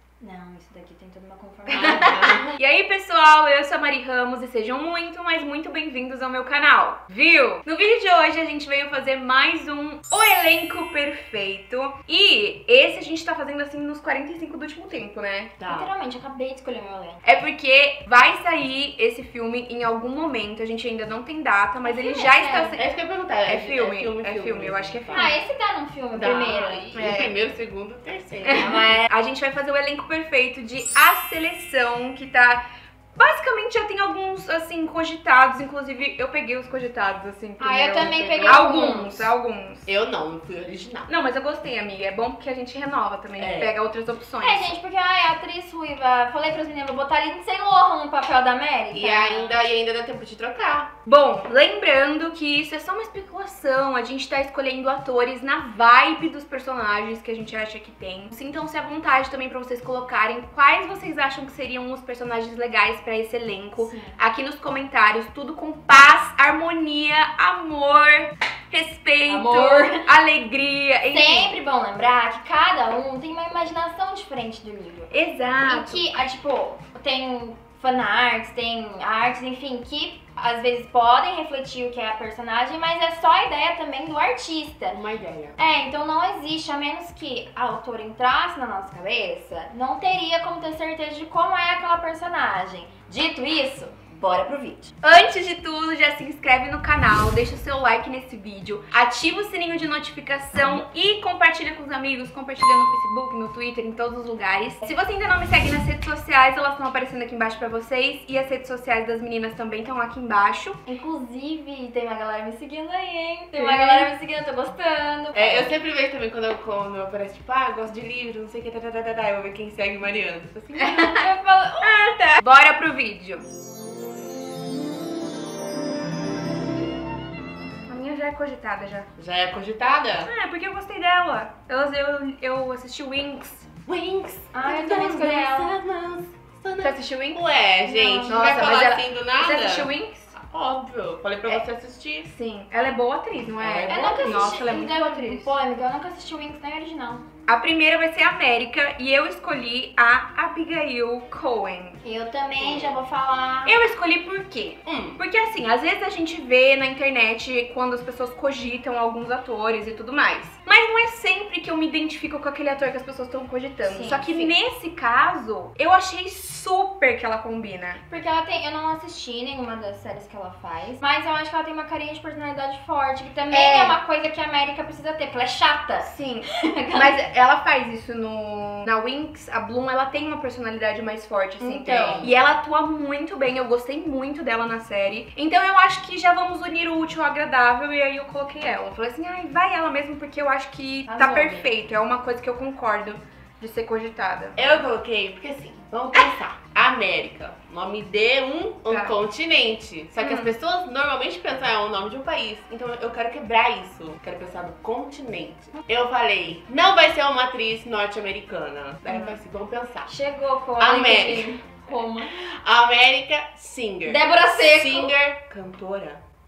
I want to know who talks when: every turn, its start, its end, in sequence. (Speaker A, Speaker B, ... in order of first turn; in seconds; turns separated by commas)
Speaker A: 0.2-2.4, Speaker B: 1.7-2.6, Speaker C: 1.7-15.5, Speaker B: 15.6-15.9, Speaker A: 15.7-17.2, Speaker C: 17.2-22.8, Speaker A: 21.8-22.8, Speaker B: 22.8-25.4, Speaker C: 23.5-25.4, Speaker A: 25.1-26.9, Speaker B: 26.1-28.9, Speaker C: 26.9-27.3, Speaker C: 28.4-32.6, Speaker C: 33.2-39.9, Speaker A: 37.6-39.3, Speaker B: 38.0-39.0, Speaker B: 39.9-41.1, Speaker C: 41.1-44.7, Speaker B: 43.4-43.7, Speaker A: 44.4-49.6, Speaker B: 48.9-50.9, Speaker C: 51.0-71.6, Speaker A: 63.8-64.2, Speaker A: 69.3-70.1, Speaker A: 71.1-85.0, Speaker C: 75.1-76.3, Speaker B: 84.9-85.6, Speaker A: 85.6-94.9, Speaker C: 95.0-110.8, Speaker A: 110.9-115.7, Speaker C: 113.6-114.1, Speaker B: 115.3-121.2, Speaker A: 120.8-122.2, Speaker C: 121.8-123.5, Speaker C: 127.9-129.1, Speaker B: 129.2-130.3, Speaker C: 130.3-133.7, Speaker B: 133.9-142.3, Speaker A: 134.5-135.8, Speaker C: 136.8-137.4, Speaker A: 137.8-138.4, Speaker C: 138.2-140.3, Speaker C: 142.2-145.5, Speaker B: 143.6-144.6, Speaker A: 143.9-147.2, Speaker C: 147.5-152.0, Speaker A: 152.0-153.8, Speaker B: 152.6-153.0, Speaker C: 153.6-168.0, Speaker B: 154.8-155.2, Speaker A: 163.8-164.4, Speaker A: 168.1-177.1, Speaker C: 173.5-174.0, Speaker C: 176.0-194.8, Speaker B: 181.6-182.3, Speaker A: 181.6-182.3, Speaker A: 191.1-191.7, Speaker B: 194.6-210.1, Speaker C: 198.9-199.1, Speaker C: 200.2-200.5, Speaker A: 210.1-212.4, Speaker B: 210.8-211.6, Speaker B: 212.2-216.2, Speaker A: 214.1-215.1